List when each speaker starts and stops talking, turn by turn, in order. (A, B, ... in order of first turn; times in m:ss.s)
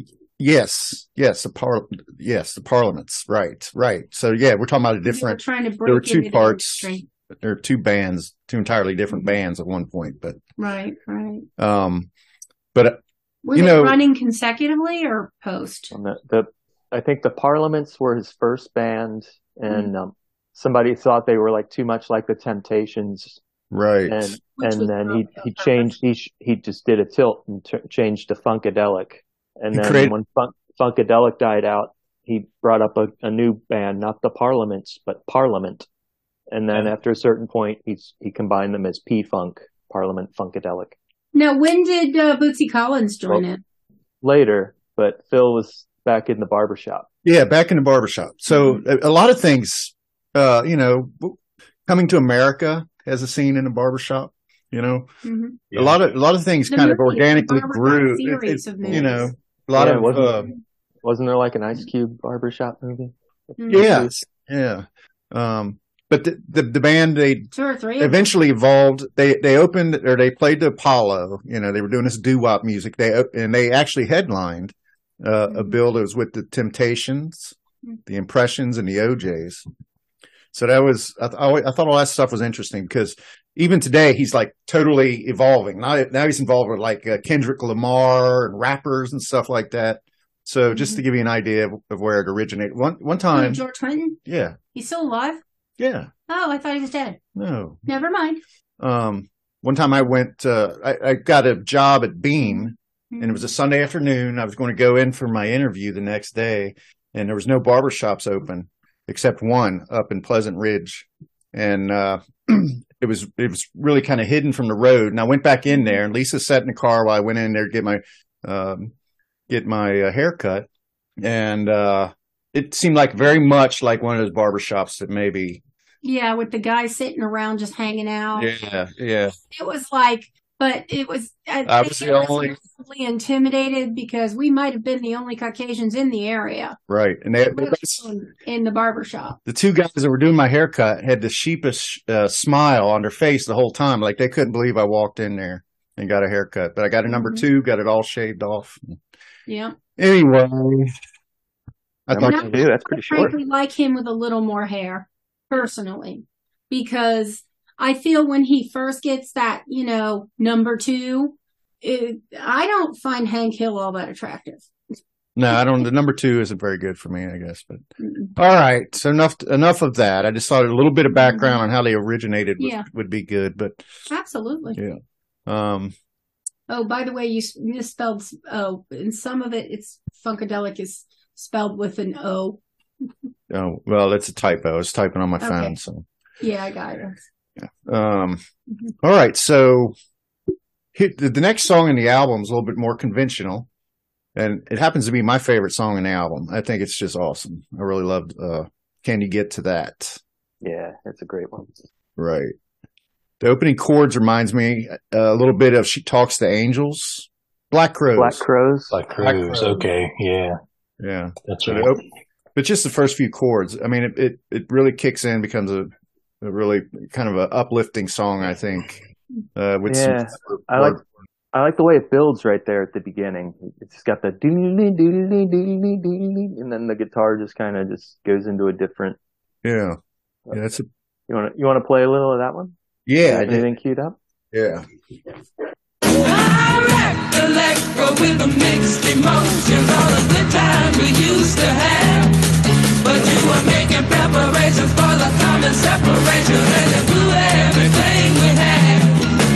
0:00.4-0:10.4 A
0:05.1-0:07.0 B
0:10.6-0:11.4 B
0:11.6-0:12.1 A
0:12.7-0:13.0 A
0:13.4-0:15.9 B
0:13.5-0:14.0 A
0:15.9-0:23.4 C
0:23.7-0:24.4 A
0:24.1-0:35.9 C
0:24.6-0:25.9 B
0:29.7-0:30.1 A
0:36.5-0:41.0 C
0:41.3-0:43.6 B
0:44.2-0:47.1 C
0:47.2-0:55.1 A
0:48.5-0:48.8 B
0:55.2-0:55.6 B
0:55.7-0:56.0 D
0:55.7-1:00.5 A
0:56.7-0:59.3 B
0:59.7-1:00.5 C
1:01.0-1:04.2 C
1:03.6-1:03.9 B
1:03.7-1:17.5 A
1:07.5-1:08.2 B
1:18.1-1:19.6 A
1:20.5-1:33.6 A
1:30.7-1:31.0 B
1:33.3-1:34.2 B
1:34.2-1:34.6 A
1:34.7-1:35.4 B
1:35.8-1:36.1 A
1:36.3-1:37.2 B
1:37.3-1:37.8 A
1:37.9-1:38.4 B
1:38.8-1:58.9 A
1:43.1-1:43.5 B
1:59.5-2:00.7 A
2:01.2-2:05.6 A
2:06.0-2:08.5 B
2:08.4-2:09.3 A
2:09.5-2:16.8 B
2:11.6-2:12.6 A
2:16.9-2:18.0 A
2:17.5-2:19.4 B
2:19.4-2:29.0 A
2:27.1-2:27.4 B
2:29.5-2:29.8 B
2:30.0-2:30.9 A
2:32.1-2:32.6 A
2:32.1-2:33.3 C
2:32.2-2:44.7 B
2:45.4-2:47.8 A
2:48.0-2:48.3 B
2:48.4-2:53.8 A
2:51.2-2:51.6 B
2:52.6-2:52.8 B
2:54.1-2:54.8 B
2:54.7-2:55.9 A
2:56.7-3:02.6 B
3:03.5-3:06.0 A
3:05.4-3:05.8 B
3:06.4-3:07.1 B
3:07.6-3:08.4 A
3:09.0-3:09.9 A
3:10.9-3:13.7 A
3:14.4-3:20.2 A
3:20.6-3:21.8 C
3:22.2-3:22.5 A
3:23.4-3:28.4 A
3:28.1-3:29.0 C
3:28.9-3:30.6 D
3:29.2-3:29.8 A
3:31.0-3:32.0 A
3:31.5-3:32.0 D
3:32.5-3:35.9 A
3:36.4-3:39.0 A
3:39.6-3:41.0 A
3:39.9-3:41.0 C
3:41.5-3:49.2 C
3:49.6-3:50.0 A
3:50.5-3:50.8 A
3:51.3-3:52.7 C
3:53.1-3:53.7 A
3:53.2-3:54.2 C
3:54.5-3:54.8 A
3:56.0-4:02.4 E
4:03.0-4:09.3 E